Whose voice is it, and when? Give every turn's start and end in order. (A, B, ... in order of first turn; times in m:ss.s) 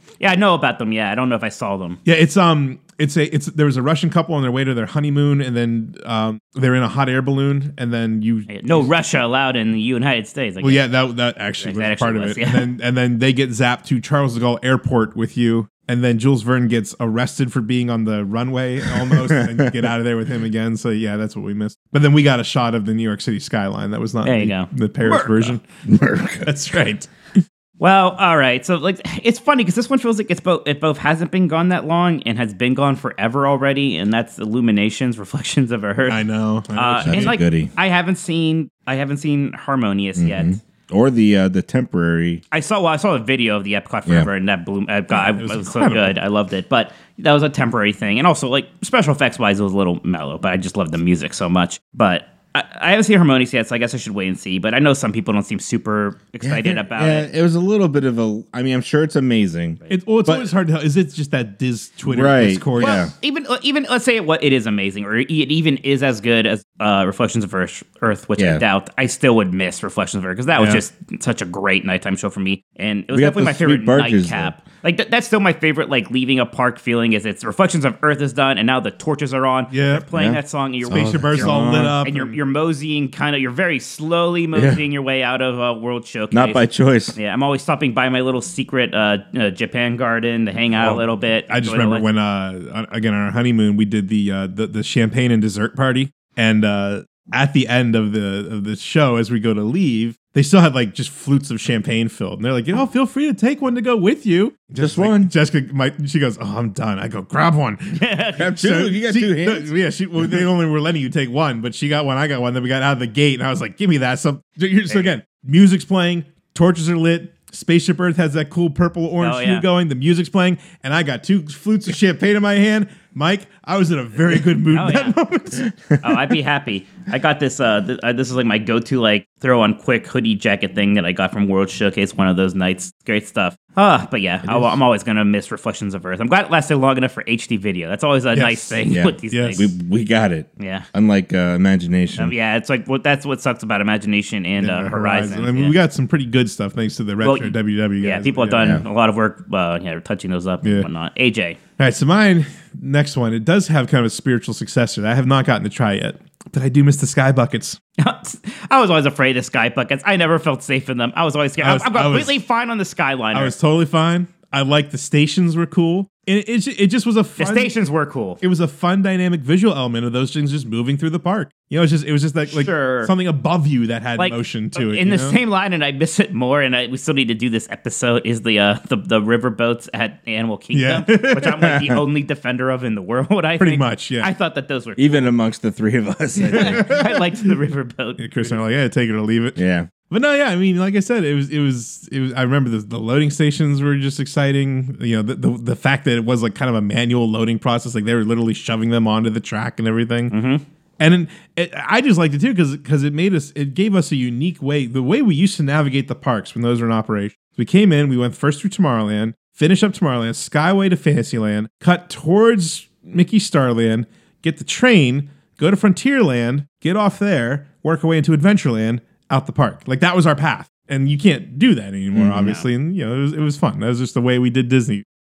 0:00.2-0:02.0 A
0:02.0-0:08.9 B
0:08.5-0:10.8 A
0:10.6-0:25.6 B
0:11.6-0:12.6 A
0:19.0-0:19.8 C
0:24.2-0:25.6 A
0:25.8-0:26.5 C
0:26.4-0:27.1 B
0:27.8-0:36.2 A
0:36.1-0:37.4 B
0:36.7-0:40.6 A
0:37.0-0:37.7 C
0:40.2-0:42.4 C
0:42.5-0:57.3 A
0:45.1-0:46.2 B
0:56.4-1:00.5 C
0:59.9-1:03.1 B
1:02.1-1:03.1 C
1:02.8-1:32.0 A
1:08.4-1:08.6 C
1:10.5-1:10.8 B
1:13.1-1:14.5 C
1:19.7-1:20.0 B
1:20.1-1:22.0 C
1:20.8-1:22.4 B
1:24.5-1:24.8 C
1:26.3-1:27.2 C
1:30.8-2:05.7 B
1:44.8-1:45.3 C
1:48.0-1:48.5 A
1:48.4-1:50.4 C
1:59.2-1:59.6 A
2:04.7-2:05.2 A
2:06.0-2:19.7 A
2:14.4-2:14.7 C
2:18.3-2:19.6 B
2:18.9-2:22.3 C
2:20.6-2:20.8 A
2:22.2-2:25.8 A
2:24.6-2:28.8 B
2:27.2-2:31.6 A
2:31.8-2:37.8 B
2:38.0-2:43.5 A
2:41.6-2:42.4 B
2:43.3-2:47.7 B
2:47.4-2:48.4 A
2:48.4-2:55.4 B
2:52.5-2:53.1 A
2:54.2-3:05.3 A
3:00.7-3:01.7 B
3:03.6-3:04.3 B
3:05.0-3:07.1 C
3:06.4-3:08.5 A
3:06.5-3:07.1 B
3:08.2-3:20.3 B
3:09.6-3:09.9 C
3:20.3-3:20.6 A
3:21.0-3:45.0 B
3:42.1-3:42.6 C